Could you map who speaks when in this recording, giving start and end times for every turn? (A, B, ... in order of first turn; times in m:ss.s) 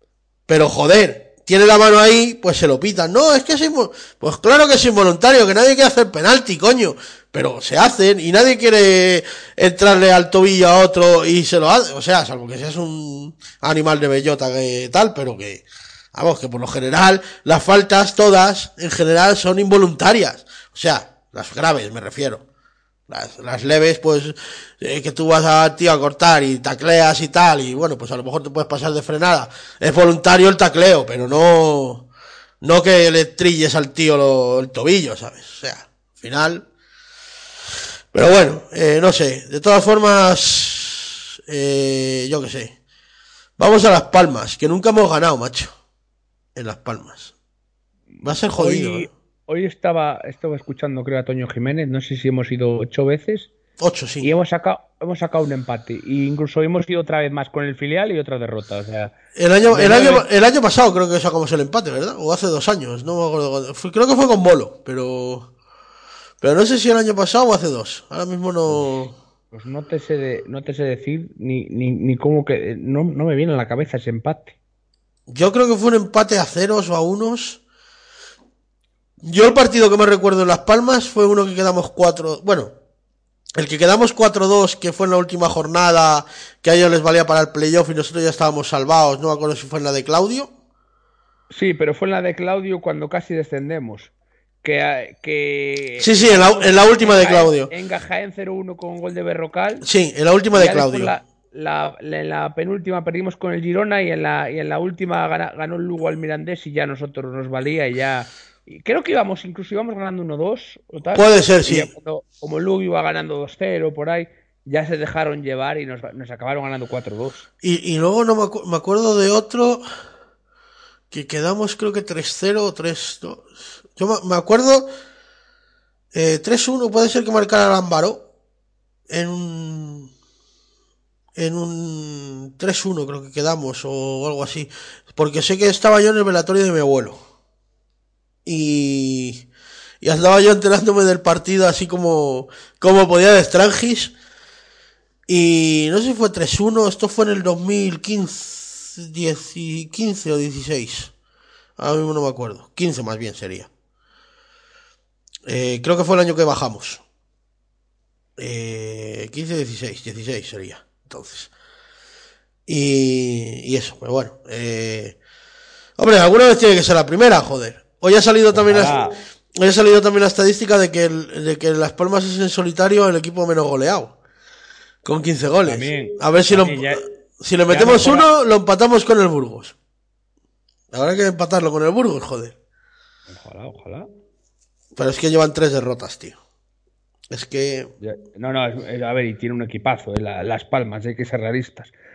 0:00.5-0:22.4 A
0:23.1-0:32.0 A
0:32.6-0:36.6 A
0:38.1-0:42.7 A
0:43.6-0:45.7 A
0:46.5-0:47.3 A
0:48.2-0:49.1 A
0:48.6-0:53.5 B
0:53.8-0:54.3 A
0:54.2-0:59.1 B
0:59.4-1:05.5 A
0:59.7-1:00.2 B
1:06.4-1:09.1 A
1:09.5-1:14.6 B
1:15.3-1:17.6 A
1:19.2-1:22.7 A
1:23.6-1:30.5 A
1:31.5-1:34.1 B
1:34.6-1:39.8 B
1:36.0-1:37.7 A
1:39.8-1:41.1 A
1:40.5-1:57.5 B
1:51.1-1:51.9 A
1:57.6-1:59.8 A
2:01.1-2:04.9 A
2:06.1-2:08.2 A
2:09.1-2:10.1 A
2:11.4-2:17.2 A
2:18.4-2:19.4 A
2:20.0-2:24.1 A
2:25.3-2:31.1 A
2:31.8-2:33.7 A
2:35.4-2:37.0 A
2:38.4-2:41.5 A
2:42.7-2:45.2 A
2:46.0-2:54.1 A
2:48.5-2:49.2 B
2:55.0-2:59.7 A
2:55.6-2:57.0 B
2:57.7-2:58.3 B
3:00.9-3:02.5 A
3:03.3-3:04.1 B
3:05.0-3:06.4 A
3:07.3-3:07.9 A
3:08.0-3:11.9 B